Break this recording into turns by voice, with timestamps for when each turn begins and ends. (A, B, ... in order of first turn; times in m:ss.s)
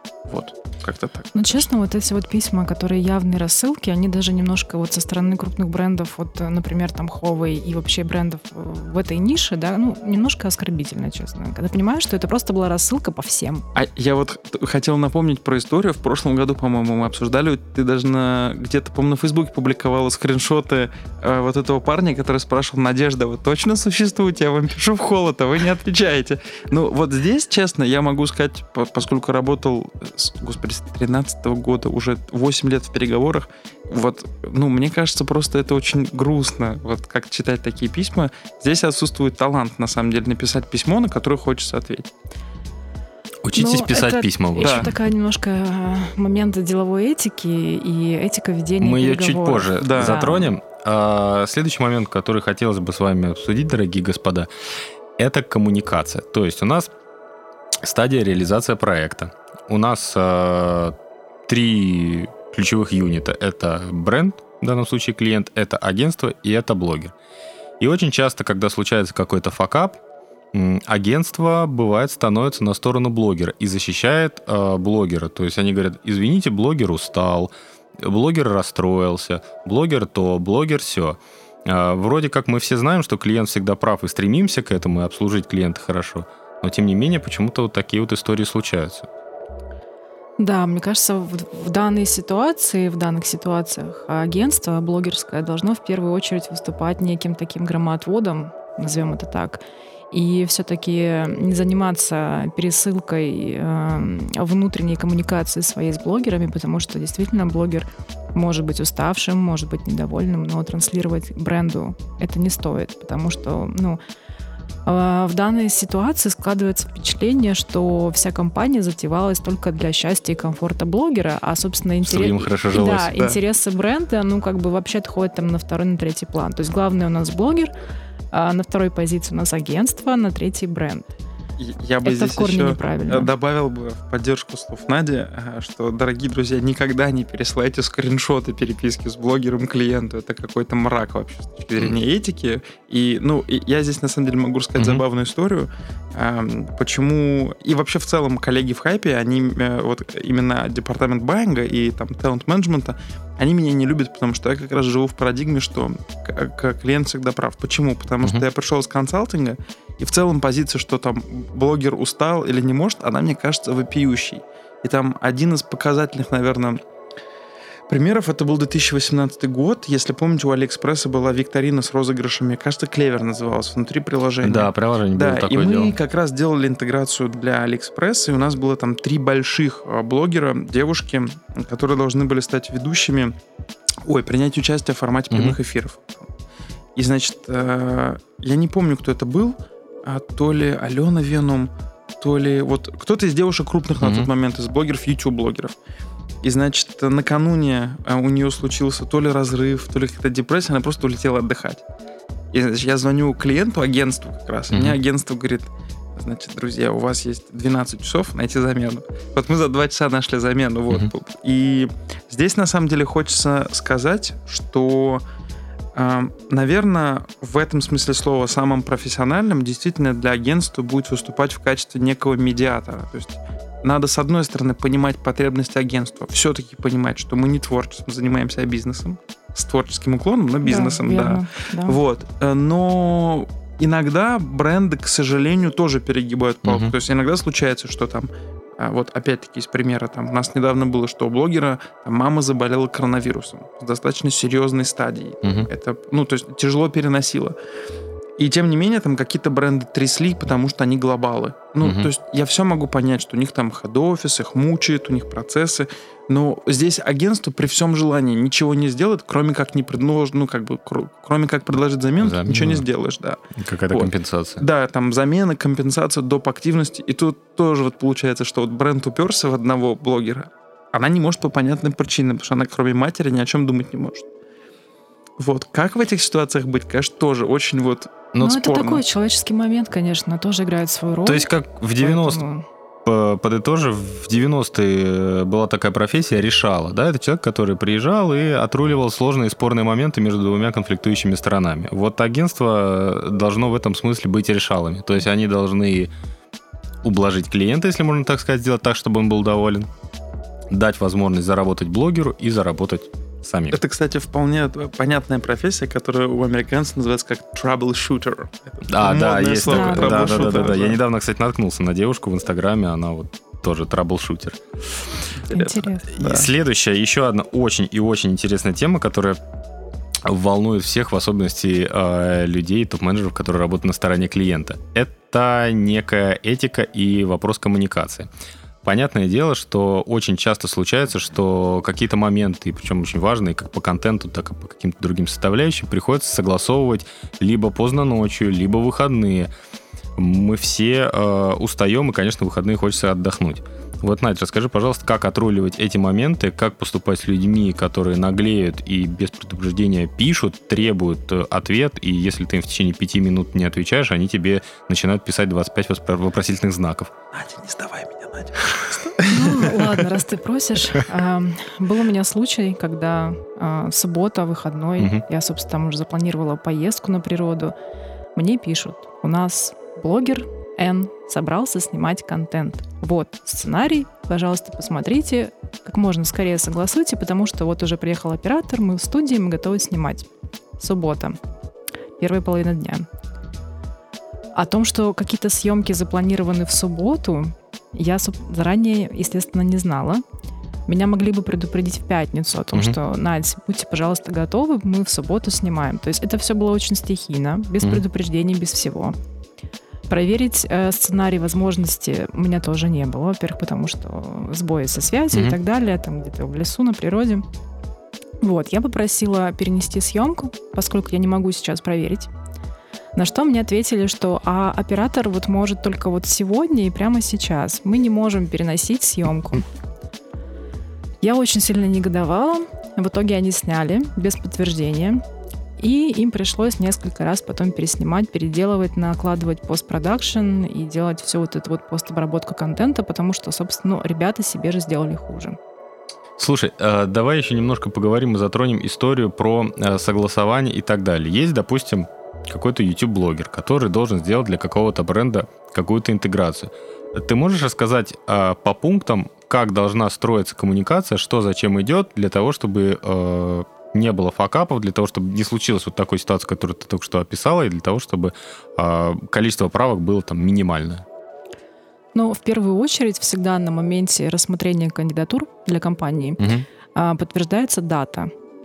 0:00.3-0:01.6 A
0:01.3-0:13.6 B
0:13.8-0:42.1 A
0:43.4-0:44.9 C
0:43.5-0:50.5 B
0:44.6-0:44.9 A
0:48.8-0:54.5 C
0:49.8-0:50.2 A
0:55.2-0:56.9 C
0:57.8-1:00.9 C
1:01.5-1:07.1 C
1:07.8-1:10.0 C
1:10.5-1:29.1 C
1:30.4-1:54.0 B
1:54.9-2:07.7 B
2:02.0-2:03.1 C
2:08.3-2:11.1 B
2:11.6-2:46.8 A
2:12.0-2:13.3 B
2:24.8-2:25.0 C
2:47.9-3:03.4 A
2:54.4-2:56.0 C
3:04.0-3:06.3 A
3:05.3-3:05.6 C
3:07.0-3:15.7 A
3:14.0-3:14.3 C
3:16.4-3:21.8 A
3:22.5-3:35.2 A
3:24.7-3:25.0 C
3:36.0-4:07.6 A
3:50.6-3:52.0 B
3:56.6-3:56.9 C
4:05.4-4:05.7 C
4:08.4-4:34.3 A
4:11.8-4:12.1 C
4:22.2-4:22.9 C
4:23.6-4:24.6 C
4:35.4-4:39.0 A
4:38.4-4:42.6 B
4:41.2-4:42.4 C
4:43.0-4:56.1 C
4:57.0-4:59.9 C
5:00.7-5:03.8 C
5:03.7-5:11.0 A
5:08.9-5:14.6 C
5:09.7-5:10.8 B
5:15.5-5:16.1 B
5:15.5-5:16.5 A
5:16.1-5:19.4 C
5:20.2-5:28.3 C
5:28.8-5:39.5 C
5:40.2-5:57.1 C
5:57.3-5:59.7 A
5:59.2-6:07.7 B
6:05.0-6:05.2 C
6:08.4-6:20.3 B
6:20.8-6:21.4 B
6:22.2-6:23.1 B
6:24.6-6:30.2 B
6:30.9-6:39.2 B
6:40.1-6:47.4 B
6:45.3-6:45.6 C
6:48.4-6:52.3 B
6:53.2-6:59.6 B
7:01.2-7:05.2 B
7:05.8-7:15.6 B
7:16.4-7:41.1 C
7:42.2-7:46.4 B
7:46.4-7:46.7 C
7:47.0-7:48.3 B